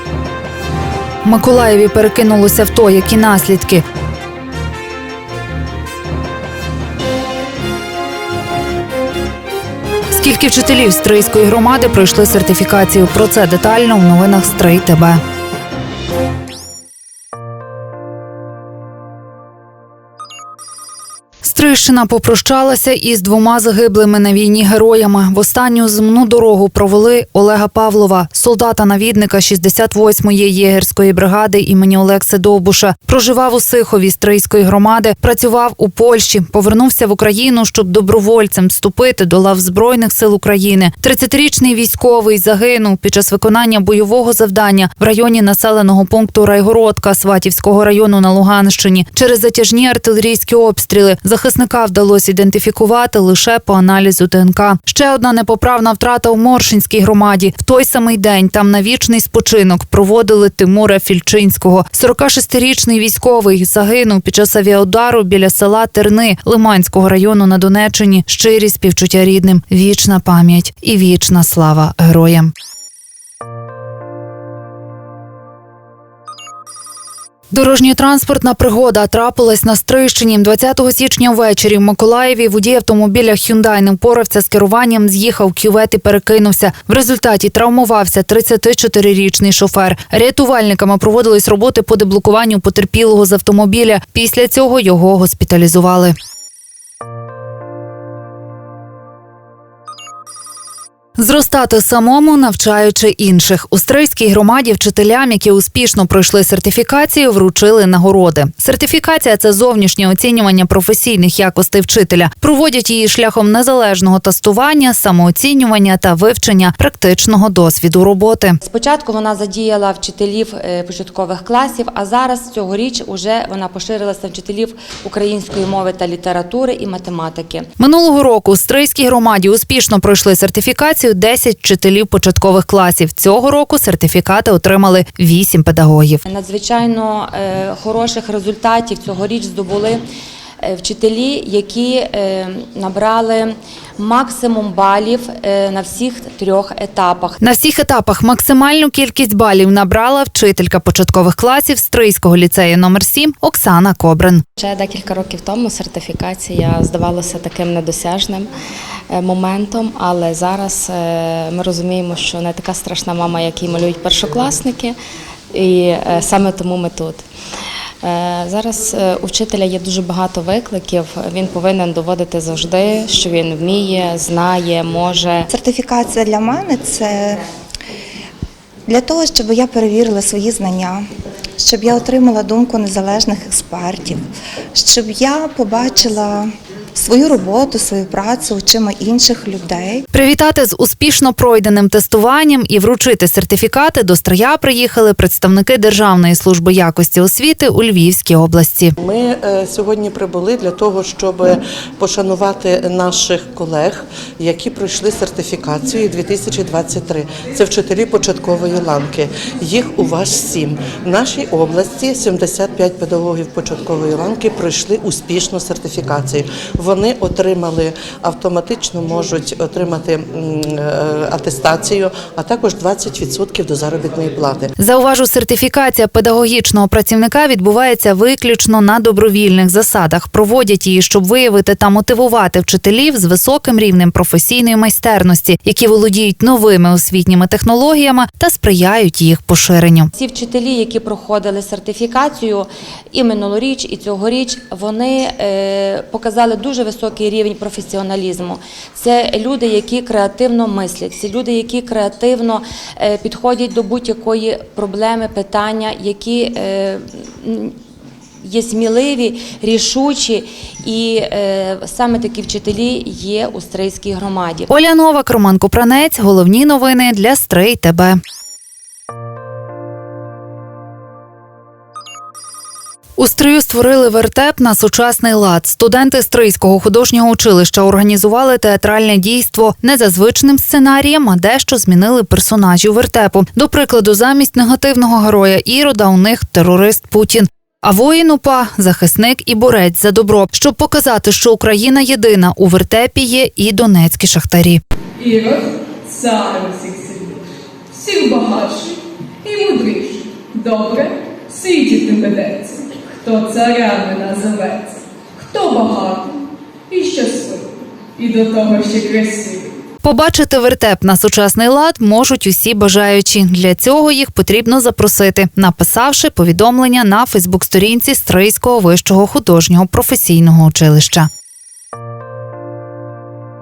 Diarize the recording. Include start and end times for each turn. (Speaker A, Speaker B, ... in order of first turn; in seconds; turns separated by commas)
Speaker A: 1.2-3.8, Speaker A: 10.1-15.2, Speaker A: 21.4-72.5, Speaker A: 77.5-96.1, Speaker A: 101.2-118.6, Speaker B: 118.6-127.7, Speaker A: 127.8-136.2, Speaker B: 136.3-140.0, Speaker B: 140.6-147.4, Speaker A: 147.4-154.4, Speaker C: 154.6-158.5, Speaker C: 159.1-165.0, Speaker C: 165.5-167.2, Speaker C: 168.0-175.5, Speaker D: 175.5-177.4, Speaker D: 178.9-181.0, Speaker D: 181.6-184.2, Speaker D: 184.8-190.0, Speaker A: 190.1-198.9, Speaker E: 199.0-224.7, Speaker A: 224.8-240.1, Speaker B: 240.2-257.8, Speaker B: 258.4-264.7, Speaker A: 264.7-268.2, Speaker A: 273.2-294.8, Speaker F: 295.2-297.4, Speaker F: 297.9-306.3, Speaker F: 306.9-309.7, Speaker A: 310.0-321.3